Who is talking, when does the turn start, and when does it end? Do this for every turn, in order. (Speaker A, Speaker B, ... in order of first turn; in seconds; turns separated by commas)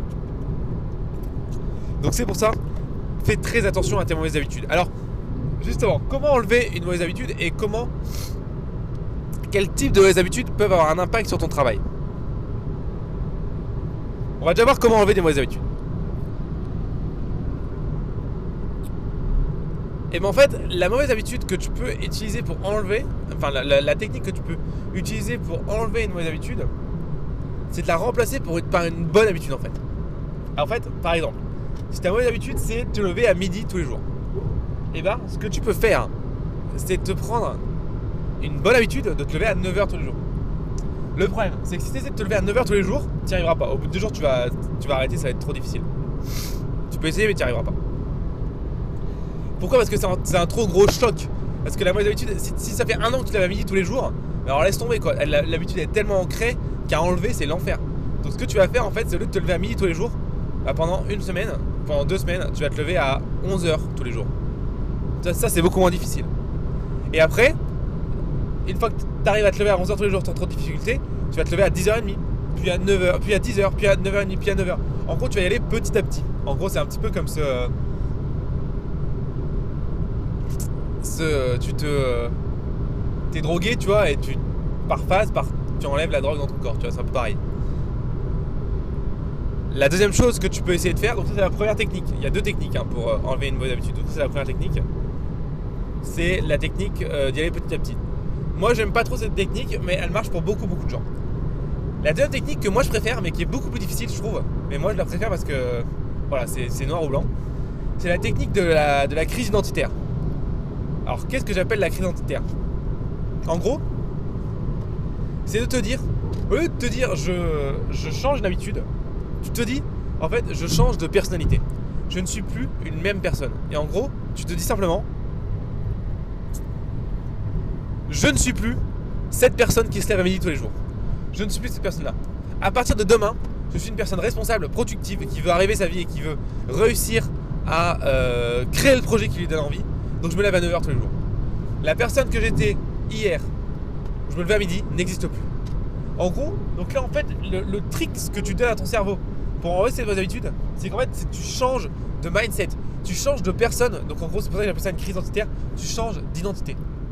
Speaker A: 2.0-2.6, Speaker A: 3.2-4.9, Speaker A: 5.6-7.9, Speaker A: 9.5-11.8, Speaker A: 14.4-15.6, Speaker A: 20.1-26.7, Speaker A: 27.7-29.8, Speaker A: 30.6-34.0, Speaker A: 34.9-36.1, Speaker A: 36.7-37.6, Speaker A: 38.4-40.2, Speaker A: 41.1-45.9, Speaker A: 46.9-47.8, Speaker A: 49.6-64.3, Speaker A: 65.2-66.3, Speaker A: 67.1-67.6, Speaker A: 68.7-77.7, Speaker A: 81.0-82.3, Speaker A: 83.3-87.4, Speaker A: 89.7-94.8, Speaker A: 96.0-98.0, Speaker A: 98.5-101.0, Speaker A: 102.0-107.3, Speaker A: 108.0-110.0, Speaker A: 111.0-112.5, Speaker A: 113.5-113.8, Speaker A: 115.5-118.9, Speaker A: 119.4-125.1, Speaker A: 128.1-130.8, Speaker A: 131.3-141.1, Speaker A: 141.8-143.5, Speaker A: 144.3-145.5, Speaker A: 146.2-156.8